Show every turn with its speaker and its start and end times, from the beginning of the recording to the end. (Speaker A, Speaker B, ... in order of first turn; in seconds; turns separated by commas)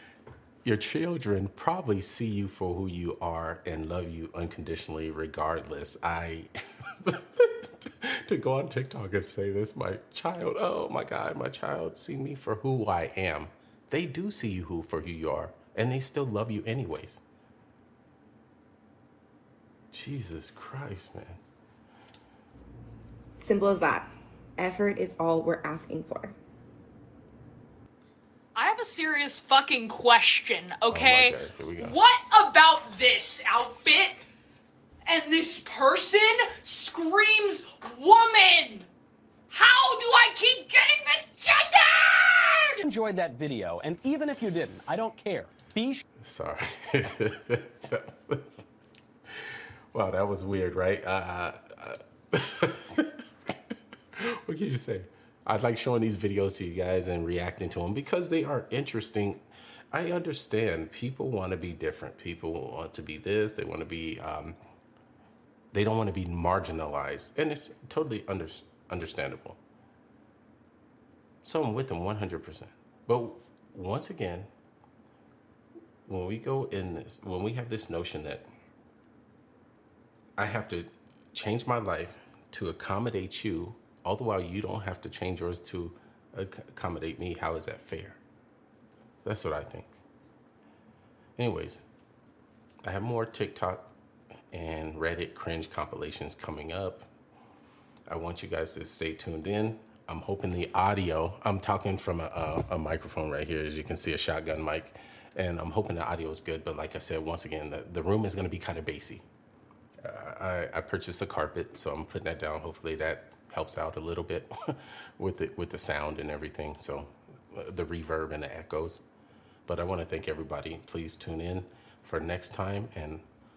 Speaker A: 0.6-6.5, Speaker A: 7.0-17.2, Speaker A: 19.9-21.4, Speaker B: 23.4-26.4, Speaker C: 28.5-34.2, Speaker A: 30.9-32.0, Speaker C: 35.0-38.9, Speaker C: 39.5-42.9, Speaker D: 42.8-46.0, Speaker A: 46.2-48.6, Speaker A: 49.9-53.5, Speaker A: 54.2-64.6, Speaker A: 65.7-69.6, Speaker A: 71.4-74.5, Speaker A: 76.0-78.5, Speaker A: 80.4-88.2, Speaker A: 89.2-89.9, Speaker A: 91.4-91.8, Speaker A: 92.8-93.9, Speaker A: 94.5-97.1, Speaker A: 98.1-109.2, Speaker A: 110.0-119.0, Speaker A: 119.7-123.2